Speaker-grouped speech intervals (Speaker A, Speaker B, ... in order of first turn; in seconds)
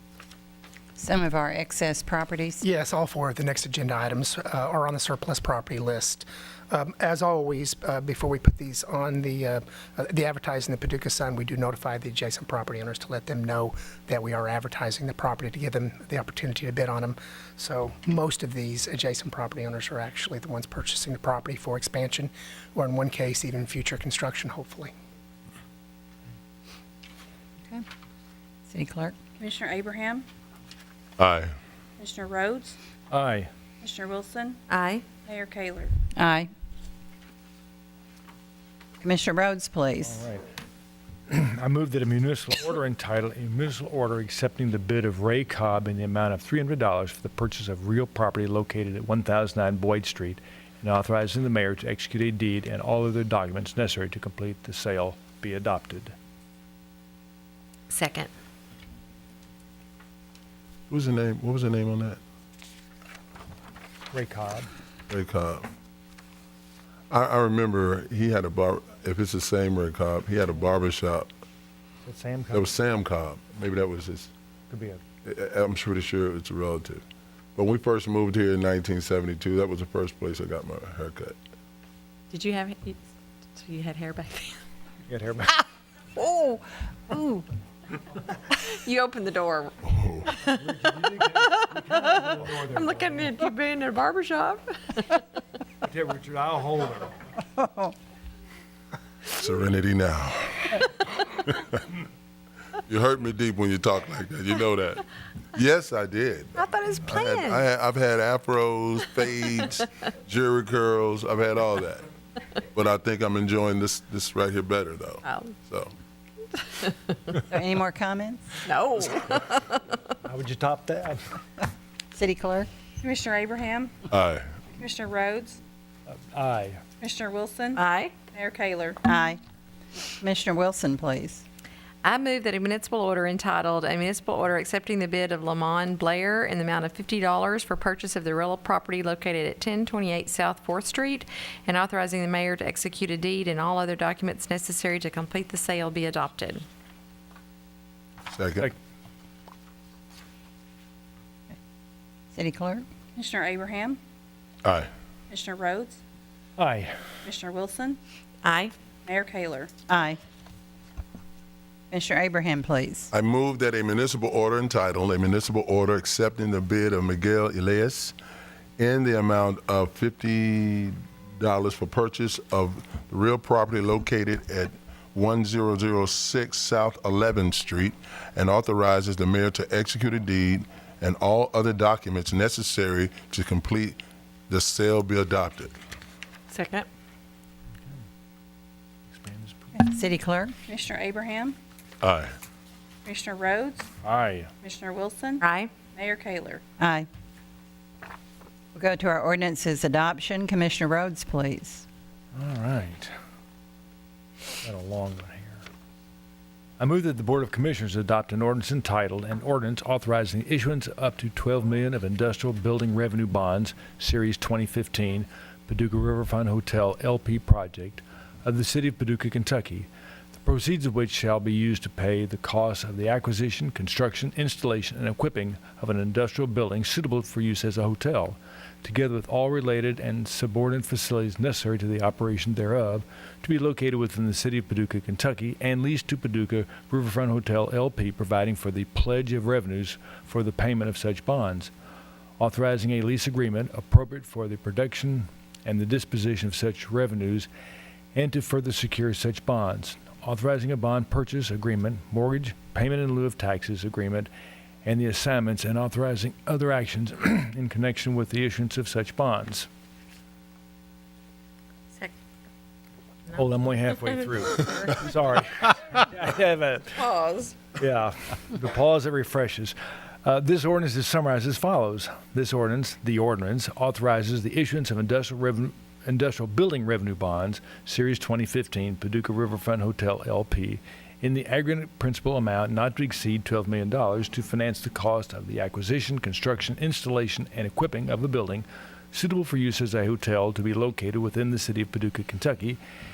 Speaker A: 1.0-2.6, 28.7-29.1, 36.2-36.5, 39.0-40.2, 97.6-97.9, 117.5-118.6, 122.2-122.7, 129.0-129.4, 130.2-131.4, 152.3-152.8, 159.9-160.2, 161.9-163.1, 189.8-190.5, 196.8-197.1, 198.8-201.9
Speaker B: 2.6-24.9
Speaker C: 29.4-30.3, 32.0-32.8, 33.8-34.6, 35.3-35.9, 123.0-124.0, 124.8-125.6, 127.0-129.0, 153.2-154.0, 155.3-156.0, 157.2-158.0, 159.1-159.7, 190.7-191.6, 193.1-193.9, 194.6-195.4, 195.9-196.6
Speaker D: 31.2-31.5, 60.9-62.2, 65.1-65.7, 67.1-71.3, 72.5-74.3, 75.2-77.0, 77.6-81.4, 89.9-90.3, 99.4-101.8, 102.9-105.0, 105.5-112.1, 112.7-115.9, 124.1-124.5, 148.3-148.7, 154.6-154.9, 163.1-168.1, 168.8-185.7, 192.0-192.3
Speaker E: 33.1-33.5, 40.0-40.4, 41.3-56.1, 64.1-64.7, 72.0-72.7, 74.7-75.0, 85.1-85.6, 90.5-93.3, 95.8-97.2, 120.2-121.2, 126.1-126.8, 156.6-156.9, 189.1-189.7, 194.0-194.5, 202.3-203.1, 204.6-205.6, 206.8-241.7, 242.4-247.5, 248.1-254.3, 254.8-259.7, 263.3-267.0, 267.8-292.8
Speaker F: 34.7-35.0, 57.9-58.3, 82.3-84.6, 86.2-87.5, 88.5-89.7, 90.3-90.6, 91.5-92.1, 92.7-95.2, 106.6-107.7, 115.2-115.5, 116.6-117.2, 118.7-120.0, 127.8-128.2, 132.0-146.7, 158.4-158.7, 186.5-186.9, 195.4-195.7, 266.9-267.6